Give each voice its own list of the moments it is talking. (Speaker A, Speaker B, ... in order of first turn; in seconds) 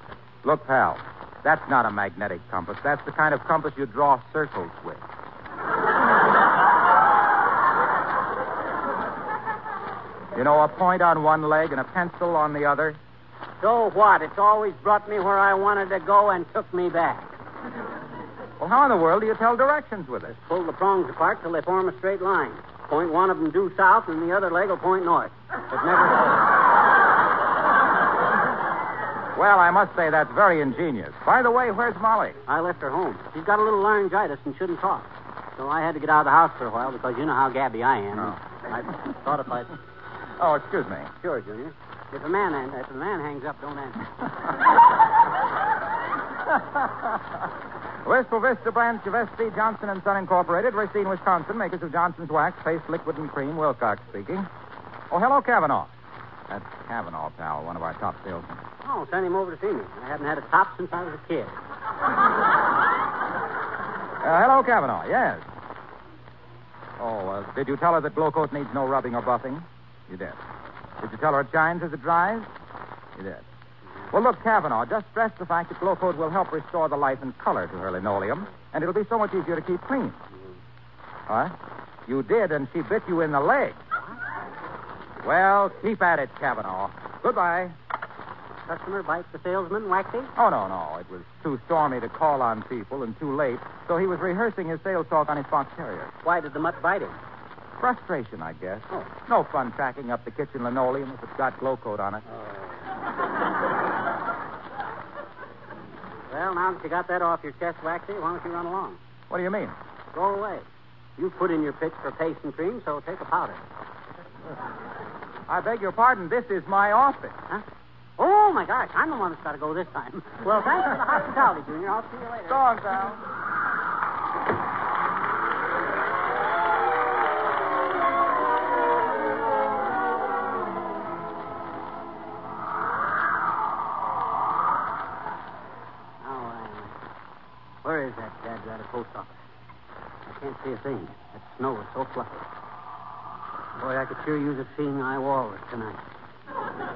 Speaker A: 0.4-5.0, 10.3-13.0, 18.6-20.3, 29.4-32.4, 40.4-41.1, 48.0-54.5, 55.1-55.9, 56.5-58.6, 64.2-65.4, 67.0-70.4, 71.0-72.5, 73.2-73.5, 74.1-80.2, 81.3-81.5, 82.1-83.8, 85.2-87.8, 90.4-96.1, 97.8-102.2, 109.3-109.8, 115.5-117.4, 122.5-123.2
Speaker B: 13.6-17.3, 20.3-26.4, 32.5-39.7, 41.2-44.0, 58.8-61.6, 88.7-90.3, 96.2-97.2, 102.3-102.7, 106.3-109.0, 110.1-113.6, 118.2-122.7, 136.2-136.9, 137.8-139.4, 140.3-142.5, 143.8-146.0